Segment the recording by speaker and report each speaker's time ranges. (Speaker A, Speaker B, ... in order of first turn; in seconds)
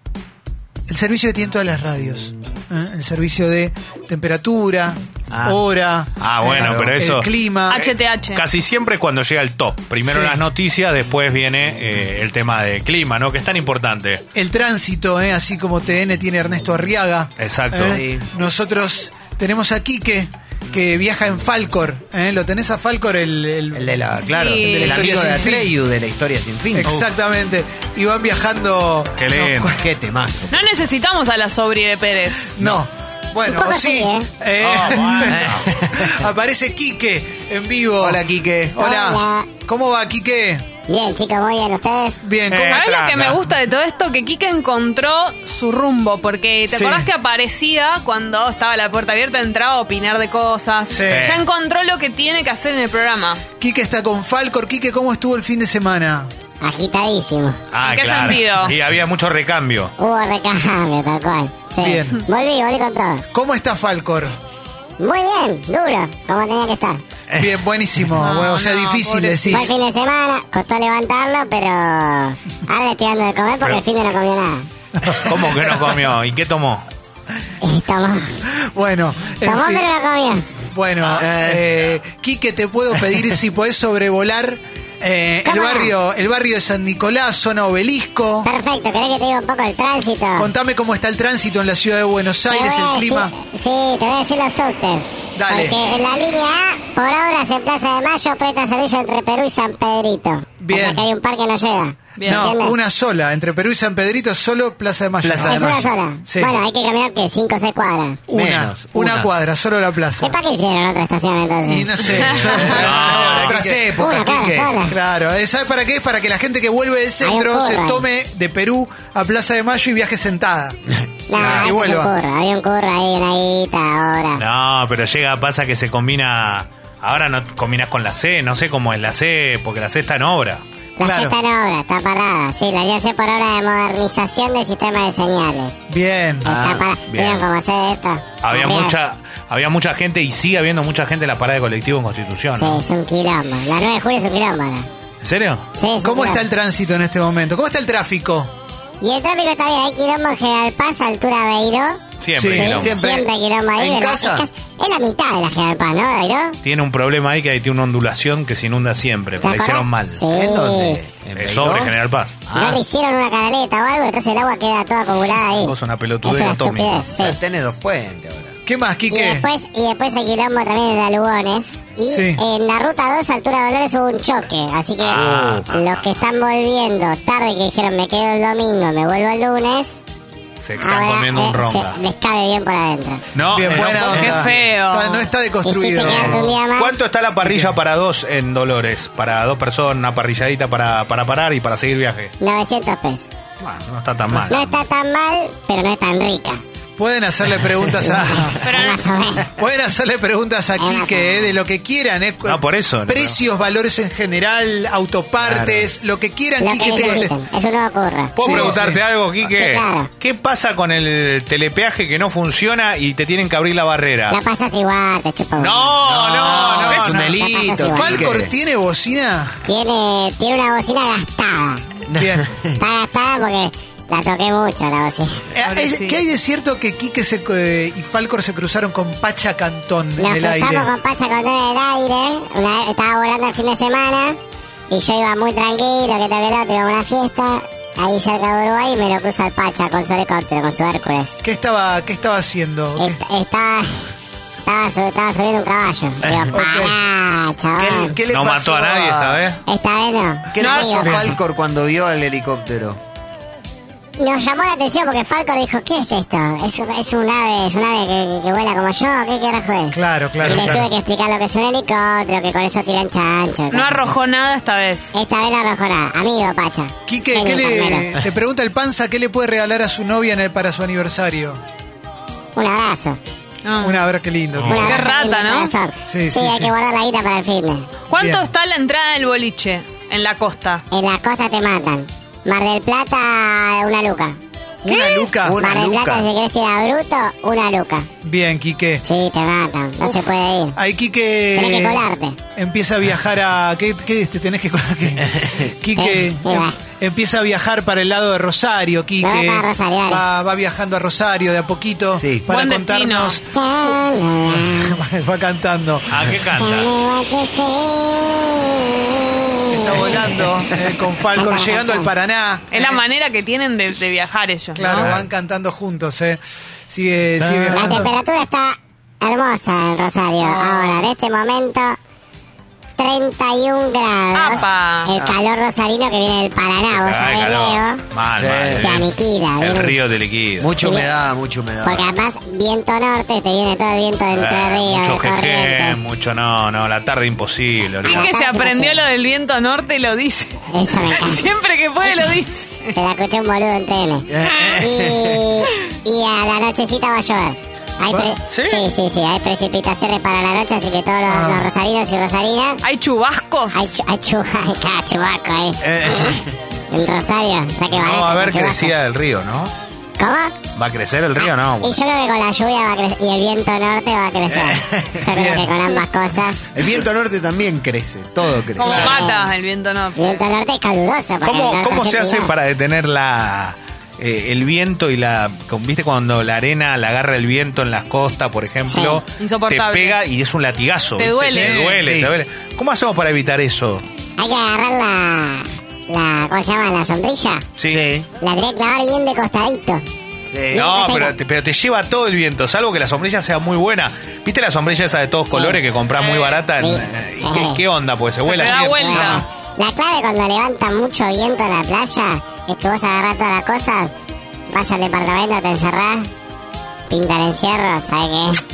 Speaker A: 0.9-7.8, 10.0-10.4, 14.3-23.9, 24.6-25.7, 26.7-29.7, 32.5-38.2, 38.7-40.7, 42.2-42.9, 46.7-47.1, 50.9-51.3, 53.6-56.3, 61.8-62.2, 63.3-64.4, 67.4-69.7, 75.0-76.1, 78.5-79.9, 80.7-88.5, 90.4-93.3, 95.3-95.8, 100.6-101.1, 102.2-106.6, 108.3-110.4, 111.6-113.9, 114.9-120.8, 121.3-122.1, 131.0-131.4, 135.9-136.5, 146.0-148.5, 152.3-152.8, 168.7-169.5, 172.1-172.4, 183.5-186.5, 187.4-187.8, 197.0-198.6, 199.5-207.4, 208.4-209.0, 216.2-217.4, 217.9-219.6, 222.2-222.4, 225.5-230.9, 241.4-243.2, 246.5-247.0, 251.0-251.3, 259.9-260.9, 267.1-271.6, 273.8-275.1, 276.0-276.7, 278.2-278.5, 284.8-285.6, 288.2-289.1, 290.8-303.4, 304.5-306.2, 309.7-313.0, 314.8-318.1, 351.3-351.6, 365.3-365.8, 381.5-382.0
Speaker B: 5.3-5.6, 17.9-18.3, 23.8-27.0, 29.6-30.6, 35.3-36.2, 38.0-38.8, 67.3-67.6, 81.0-81.6, 83.0-83.3, 105.2-105.9, 108.3-109.3, 112.0-114.8, 136.4-136.9, 152.6-154.5, 160.3-161.9, 162.5-162.8, 167.2-168.6, 175.1-175.7, 197.8-198.1, 205.4-205.9, 216.1-218.5, 222.1-222.8, 246.2-246.6, 247.8-249.5, 250.5-253.0, 260.4-260.8, 285.4-286.3, 295.2-295.6, 302.2-302.4, 310.0-310.7, 314.9-315.2, 325.2-325.4, 328.4-328.9, 330.6-332.1, 344.3-345.6, 355.8-356.5, 364.5-365.2, 366.8-369.2, 382.0-382.3, 387.9-388.3, 390.5-390.9, 399.1-399.4
Speaker C: 6.2-14.2, 17.4-18.0, 29.2-29.8, 34.6-35.6, 42.5-43.4, 51.1-51.4, 57.7-59.9, 75.2-76.9, 112.8-113.6, 124.4-130.6, 137.1-137.5, 138.4-142.8, 145.2-145.7, 152.2-153.0, 156.6-160.2, 161.3-162.4, 165.6-167.1, 175.0-176.0, 180.6-182.1, 183.3-184.6, 186.1-192.3, 193.6-194.8, 202.5-203.4, 208.3-214.4, 215.6-217.3, 248.3-249.6, 274.6-274.9, 306.1-307.0, 317.4-318.1, 326.9-330.7, 334.3-338.3, 348.4-348.9, 357.9-359.7, 360.7-362.0, 368.9-369.2, 371.4-384.1, 387.8-388.0, 390.7-399.2
Speaker D: 7.7-8.4, 24.3-25.2, 30.5-32.5, 42.7-53.4, 57.8-58.8, 68.2-69.7, 102.2-102.5, 183.9-185.3, 198.6-199.0, 225.7-226.2, 250.6-251.0, 263.7-265.1, 273.6-274.0, 274.8-275.8, 278.1-280.8, 284.9-285.3, 302.5-303.4, 312.7-315.1, 320.4-321.1, 324.3-325.1, 338.0-342.9, 352.8-353.9, 368.8-370.4, 379.4-380.2, 381.2-381.8, 396.1-396.6, 398.4-399.5
Speaker E: 33.5-34.3, 38.8-39.5, 40.9-42.2, 56.6-57.6, 60.0-63.2, 65.0-67.0, 69.5-74.7, 77.6-78.4, 79.5-80.6, 85.5-86.0, 88.4-90.5, 92.5-102.8, 105.4-108.2, 110.2-112.0, 114.0-114.9, 117.2-118.0, 121.3-124.4, 131.0-135.8, 136.4-139.0, 142.6-144.9, 145.8-146.5, 149.0-152.0, 152.6-156.6, 159.4-161.0, 162.5-167.4, 169.1-180.0, 180.8-183.2, 185.6-187.0, 192.4-193.3, 194.4-196.6, 198.1-199.5, 200.8-201.6, 206.6-208.5, 209.4-210.1, 214.3-215.9, 217.3-218.3, 219.7-221.8, 222.8-225.5, 230.2-234.4, 234.9-241.4, 243.0-244.1, 244.7-248.2, 249.7-251.3, 254.2-264.1, 265.1-268.1, 272.6-273.2, 274.7-277.9, 280.9-284.4, 285.6-288.1, 289.0-290.8, 291.5-292.4, 296.0-296.8, 299.2-300.2, 303.5-305.0, 306.5-310.1, 311.4-312.1, 317.7-322.0, 323.0-328.0, 328.8-329.9, 330.8-331.1, 331.8-336.0, 338.0-339.0, 340.7-341.5, 342.9-352.8, 353.7-355.8, 356.9-358.9, 360.2-360.6, 361.4-366.7, 369.0-369.5, 370.2-372.5, 378.9-379.2, 384.4-387.7, 388.4-390.0, 390.7-391.4, 395.5-395.8, 396.8-397.8, 398.6-404.1, 404.7-406.3, 407.1-408.6